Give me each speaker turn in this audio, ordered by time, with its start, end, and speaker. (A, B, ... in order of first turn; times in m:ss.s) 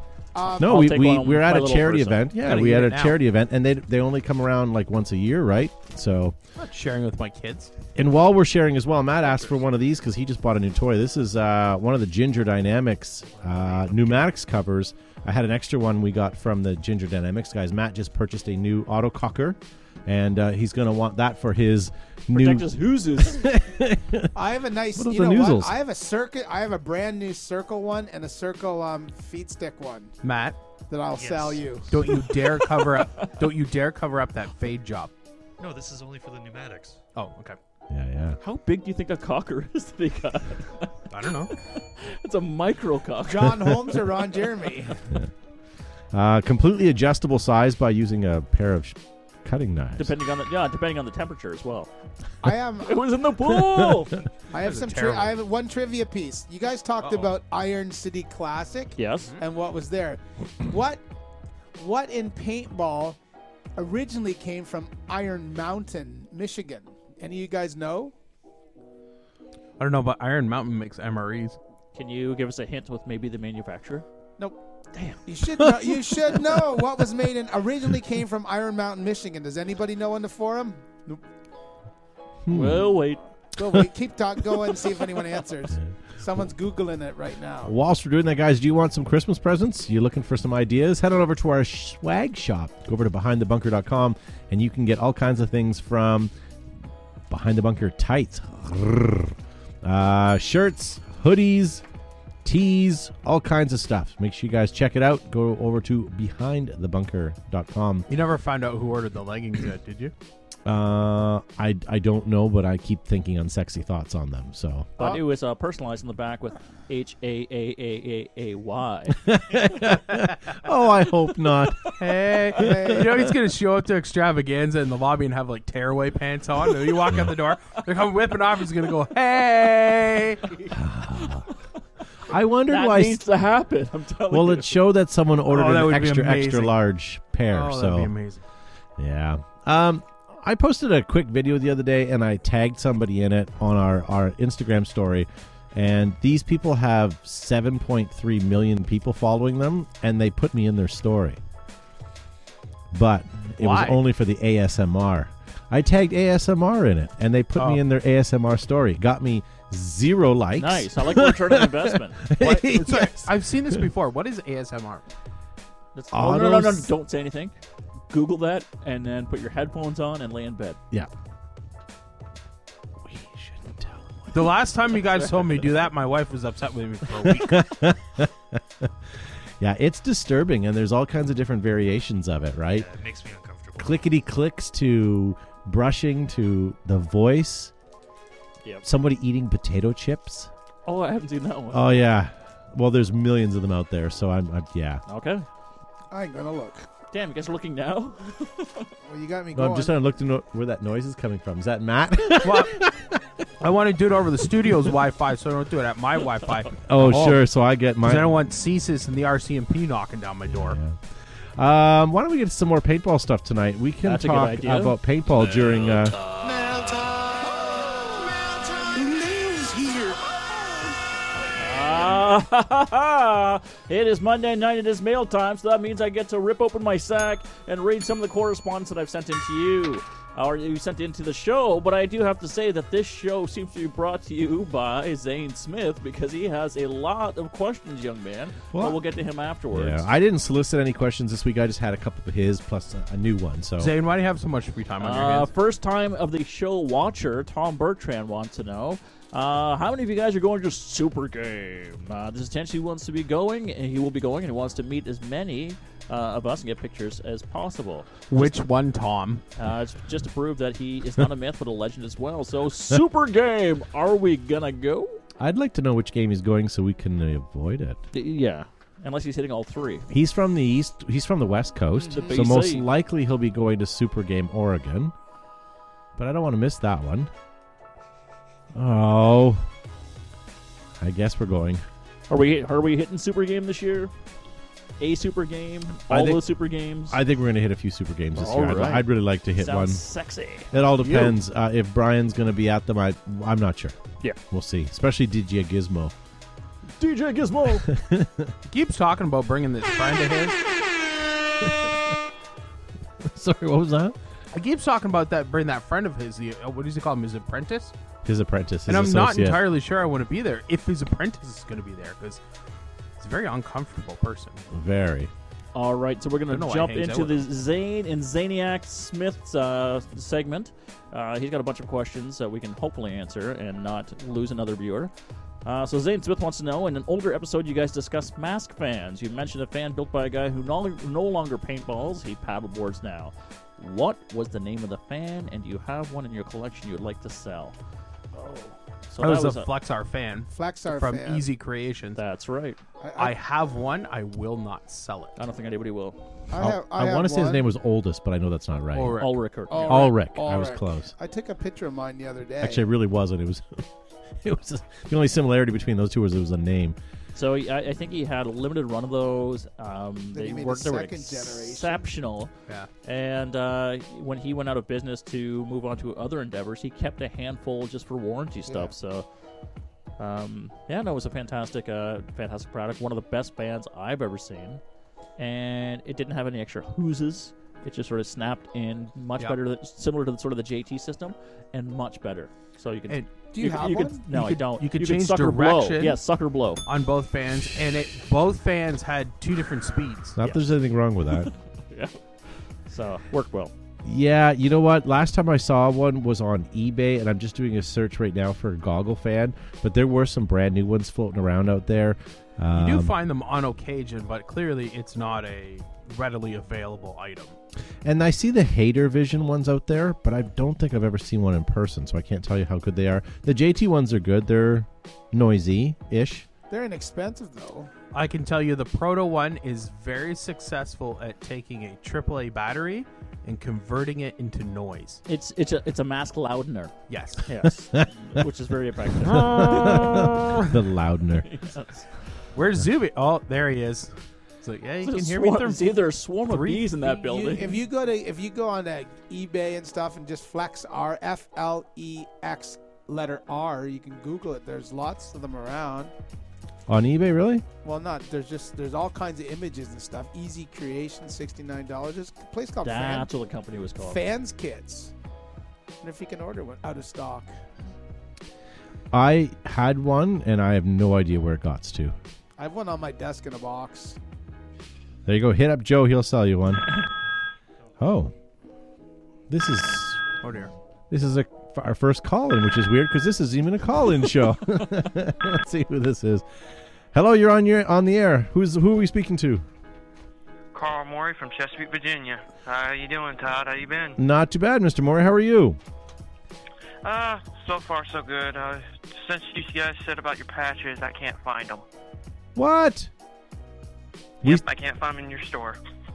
0:00.3-0:00.8 A
0:00.6-0:06.4 B
0:00.6-0:02.3 C
0:02.4-0:03.2 D
0:06.6-0:07.7 D
0:08.0-0:24.3 B
0:13.4-0:14.0 E
0:22.3-0:23.5 C
0:24.3-0:30.2 A
0:25.0-0:25.8 B
0:30.2-0:30.6 D
0:30.9-0:32.0 A
0:31.1-0:31.7 E
0:31.9-0:35.1 D
0:35.6-0:37.0 E
0:37.2-0:37.6 D
0:37.9-0:38.4 B
0:38.4-0:40.9 C
0:41.1-0:41.5 D
0:41.8-0:43.6 C
0:43.2-0:45.0 A
0:46.1-0:50.1 B
0:50.0-0:51.9 C
0:52.4-0:53.1 A
0:52.8-0:54.2 C
0:53.6-0:54.1 B
0:54.5-1:01.0 A
0:54.5-0:55.4 D
0:57.0-0:57.4 D
0:59.0-0:59.3 C
1:01.8-1:03.2 A
1:03.8-1:08.1 A
1:09.8-1:11.6 D
1:11.9-1:14.0 C
1:14.4-1:21.2 A
1:15.6-1:16.0 B
1:22.5-1:22.9 B
1:22.5-1:23.2 C
1:23.6-1:27.7 A
1:27.6-1:36.3 B
1:37.3-1:41.8 B
1:42.4-1:48.1 B
1:48.1-1:50.1 D
1:50.7-1:54.9 B
1:55.0-1:59.2 C
1:59.2-2:01.8 B
2:02.0-2:10.6 D
2:02.6-2:03.1 A
2:02.6-2:03.4 B
2:10.7-2:11.5 B
2:12.3-2:13.2 B
2:12.7-2:14.8 C
2:14.3-2:18.1 B
2:15.5-2:16.8 D
2:17.5-2:18.4 D
2:19.0-2:31.4 B
2:32.9-2:43.3 B
2:33.6-2:34.0 D
2:37.6-2:37.8 D
2:40.6-2:42.8 C
2:42.6-2:45.0 D
2:46.0-2:47.5 C
2:46.1-2:46.9 B
2:48.1-2:50.8 C
2:53.0-2:54.5 B
2:54.3-2:57.8 D
2:57.2-2:58.9 B
2:59.6-3:02.9 B
3:02.7-3:04.0 E
3:03.8-3:07.7 B
3:08.8-3:10.5 B
3:10.9-3:11.9 C
3:11.7-3:15.0 B
3:15.1-3:15.5 C
3:16.1-3:16.9 A
3:17.1-3:18.9 C
3:19.0-3:19.9 A
3:19.6-3:23.2 B
3:22.4-3:22.8 D
3:23.6-3:27.5 D
3:26.9-3:28.4 B
3:28.0-3:30.8 D
3:30.5-3:31.0 B
3:31.6-3:36.2 B
3:34.0-3:35.0 C
3:35.5-3:36.1 E
3:36.4-3:40.9 A
3:41.6-4:00.1 C
3:58.7-3:59.0 B
3:59.7-4:03.9 B
4:03.8-4:05.5 D
4:05.0-4:18.6 C
4:18.3-4:19.4 D
4:19.6-4:25.2 C
4:25.4-4:28.0 B
4:28.1-4:30.1 C
4:30.1-4:35.1 B
4:32.0-4:32.4 A
4:32.1-4:32.9 C
4:36.2-4:37.3 B
4:38.7-4:39.7 B
4:41.0-4:41.8 B
4:42.3-4:44.1 C
4:45.0-4:47.2 C
4:46.1-4:46.4 B
4:47.1-4:50.0 B
4:48.4-4:50.7 C
4:50.7-4:54.0 B
4:51.0-4:51.4 D
4:54.5-4:56.1 B
4:57.0-4:57.9 C
4:57.8-4:58.5 B
4:58.7-5:00.6 D
5:03.2-5:04.2 B
5:04.5-5:07.9 D
5:08.2-5:09.7 B
5:08.9-5:12.4 D
5:13.2-5:14.7 D
5:14.7-5:15.3 B
5:15.8-5:25.1 C
5:16.5-5:17.5 D
5:25.6-5:37.8 C
5:38.3-5:38.8 A
5:39.1-5:39.7 C
5:39.2-5:42.2 D
5:40.5-5:41.5 A
5:42.2-5:42.8 C
5:43.0-5:43.4 A
5:43.2-5:45.4 D
5:45.4-5:46.2 C
5:46.5-5:47.7 A
5:46.6-5:49.2 B
5:48.9-5:49.4 D
5:49.2-5:50.1 C
5:49.7-5:52.8 A
5:49.9-5:51.1 B
5:52.6-5:53.9 B
5:54.4-5:57.0 B
5:57.4-6:02.5 C
6:00.3-6:02.1 A
6:03.0-6:09.2 C
6:08.7-6:08.9 A
6:10.2-6:14.8 C
6:15.4-6:26.8 C
6:23.5-6:24.2 A
6:24.3-6:26.2 D
6:26.8-6:30.6 D
6:30.4-6:31.5 B
6:31.4-6:32.2 C
6:32.9-6:33.7 C
6:34.0-6:43.1 B
6:42.7-6:47.6 D
6:48.0-6:56.5 B
6:56.7-6:57.9 A
6:58.1-7:05.2 D
7:05.3-7:06.9 C
7:07.1-7:07.5 D
7:07.4-7:10.7 C
7:09.2-7:11.5 B
7:09.9-7:10.3 D
7:11.4-7:12.1 C
7:12.5-7:14.1 D
7:14.6-7:17.8 D
7:15.0-7:17.8 C
7:17.5-7:26.1 A
7:26.9-7:27.6 B
7:27.8-7:33.3 A
7:32.8-7:34.2 C
7:34.0-7:35.1 A
7:36.0-7:37.5 A
7:39.1-7:42.1 B
7:42.6-7:44.2 A
7:45.3-7:47.0 B
7:48.0-7:48.3 B
7:49.5-7:50.2 B
7:50.4-7:50.7 D
7:51.1-7:56.4 B
7:57.1-7:59.6 B
8:00.7-8:04.2 F
8:04.2-8:05.8 B
8:07.0-8:11.8 F
8:12.6-8:13.1 B
8:14.4-8:15.8 F